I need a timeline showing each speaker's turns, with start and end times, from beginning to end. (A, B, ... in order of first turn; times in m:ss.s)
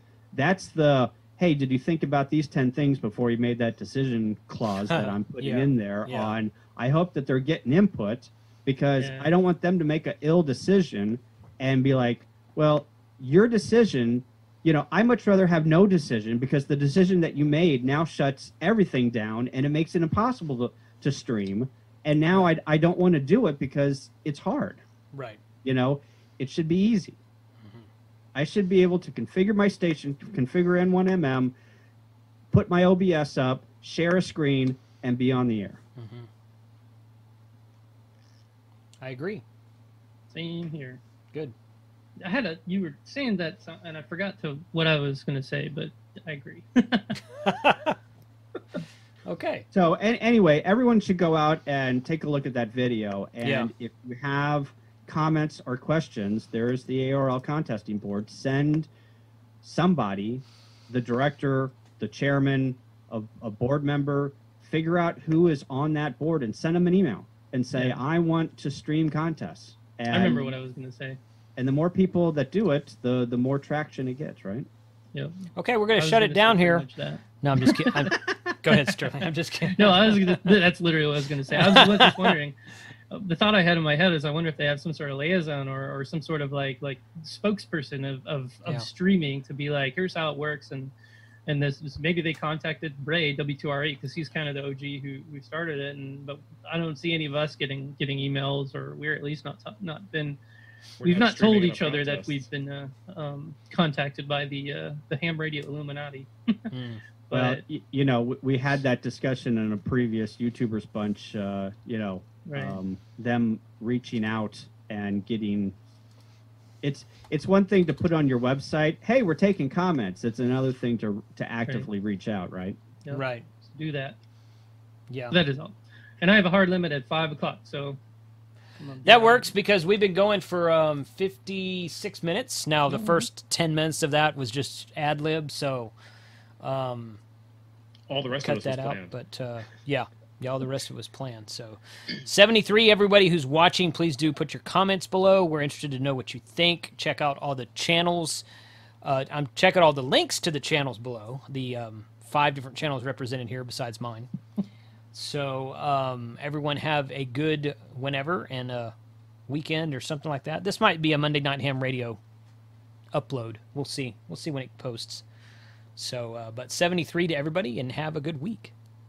0:00.3-0:24.8 A
0:04.8-0:06.4 B
0:09.0-0:09.3 C
0:25.1-0:25.4 B
0:25.6-0:27.2 A
0:27.6-0:27.9 B
0:28.3-0:31.5 A
0:32.5-0:35.8 A
0:36.0-0:36.3 B
0:39.0-0:39.4 B
0:40.3-0:41.0 C
0:42.2-0:47.2 C
0:47.4-0:48.0 B
0:49.3-0:49.7 B
0:49.7-0:58.9 A
0:53.4-0:53.7 B
0:59.6-1:10.5 A
1:10.1-1:11.2 C
1:11.6-1:14.7 A
1:15.1-1:17.2 C
1:15.6-1:16.9 B
1:17.4-1:20.6 B
1:18.1-1:18.5 A
1:19.7-1:22.6 C
1:21.6-1:22.3 B
1:23.1-1:30.9 C
1:31.5-1:40.4 C
1:41.0-1:42.5 D
1:41.0-1:46.7 C
1:46.7-1:47.0 B
1:47.3-1:47.6 C
1:47.3-1:55.8 A
1:52.5-1:52.8 C
1:56.8-2:02.8 A
2:03.0-2:04.2 C
2:03.1-2:03.4 B
2:05.1-2:05.4 B
2:05.3-2:08.0 C
2:08.8-2:09.5 C
2:09.0-2:15.9 B
2:12.9-2:13.2 C
2:16.6-2:17.2 B
2:18.1-2:19.1 D
2:18.4-2:28.4 B
2:29.0-2:34.3 B
2:35.1-2:39.0 B
2:39.5-2:42.2 B
2:43.1-2:45.2 B
2:46.0-2:48.7 B